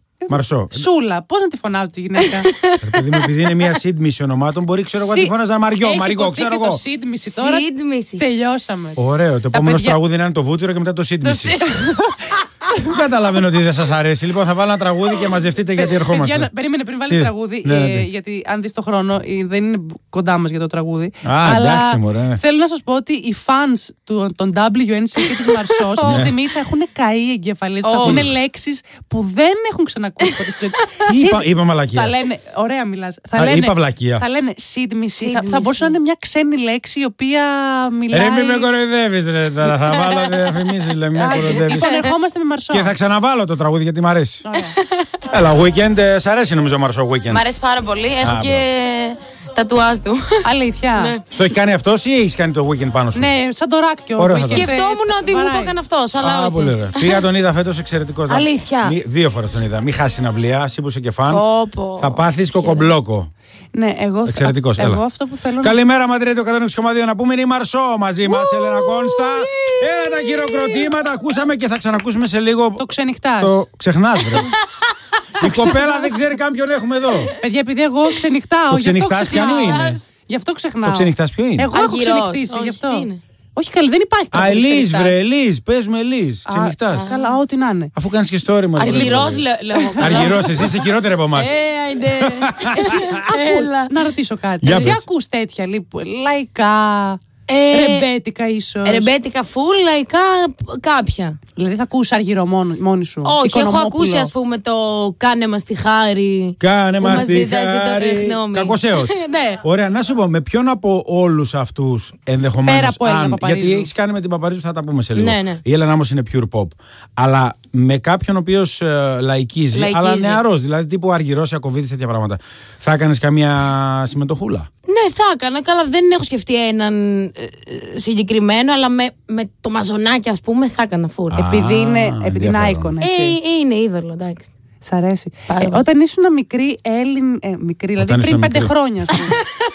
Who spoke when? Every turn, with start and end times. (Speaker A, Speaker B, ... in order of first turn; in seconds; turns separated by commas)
Speaker A: 0.2-2.5, Speaker B: 0.3-0.9, Speaker C: 2.2-3.4, Speaker B: 2.8-6.8, Speaker A: 4.9-10.0, Speaker C: 7.3-9.0, Speaker B: 9.0-11.6, Speaker A: 11.2-12.3, Speaker B: 12.7-16.5, Speaker A: 15.8-38.7, Speaker B: 17.1-18.1, Speaker B: 21.2-22.4, Speaker C: 25.9-26.3, Speaker B: 26.0-26.3, Speaker C: 27.8-28.3, Speaker B: 28.0-28.3, Speaker C: 30.2-31.1, Speaker B: 31.1-32.1, Speaker B: 33.4-34.2, Speaker C: 35.1-36.0, Speaker B: 38.1-41.9, Speaker C: 39.8-40.6, Speaker A: 41.2-43.0, Speaker C: 41.3-42.1, Speaker B: 42.7-44.5, Speaker A: 44.4-44.8, Speaker B: 45.3-47.4, Speaker C: 47.3-51.2, Speaker B: 48.2-48.7, Speaker A: 50.4-51.1, Speaker B: 51.3-53.3, Speaker A: 53.1-55.8, Speaker B: 54.2-54.7, Speaker C: 54.3-57.2, Speaker B: 56.2-61.4, Speaker C: 58.3-59.0, Speaker C: 61.3-62.9, Speaker B: 62.0-63.3, Speaker A: 63.7-65.8, Speaker B: 64.3-65.0, Speaker B: 65.6-72.9, Speaker C: 68.3-70.9, Speaker A: 72.8-73.6, Speaker B: 73.4-74.5, Speaker B: 75.4-77.3, Speaker A: 75.4-76.1, Speaker C: 75.4-75.7, Speaker C: 77.1-77.4, Speaker A: 77.4-85.2, Speaker B: 78.7-80.0, Speaker C: 79.6-80.0, Speaker B: 80.8-81.7, Speaker C: 81.7-83.2, Speaker B: 84.3-87.1, Speaker A: 86.5-87.9, Speaker C: 87.0-87.4, Speaker B: 88.0-89.5, Speaker C: 88.8-94.0, Speaker A: 88.8-90.6, Speaker B: 90.0-91.5, Speaker B: 92.2-93.0, Speaker A: 93.3-99.1, Speaker B: 94.6-95.0, Speaker C: 94.7-95.0, Speaker C: 97.5-98.1, Speaker C: 98.8-101.4, Speaker A: 101.6-104.3, Speaker C: 103.2-109.6, Speaker B: 106.6-124.7, Speaker A: 112.6-113.9, Speaker C: 115.2-115.6, Speaker C: 119.7-120.4, Speaker C: 124.9-131.5, Speaker B: 131.3-132.9, Speaker A: 131.4-133.4, Speaker C: 133.0-134.5, Speaker A: 134.8-139.4, Speaker C: 135.5-135.8, Speaker B: 138.0-138.7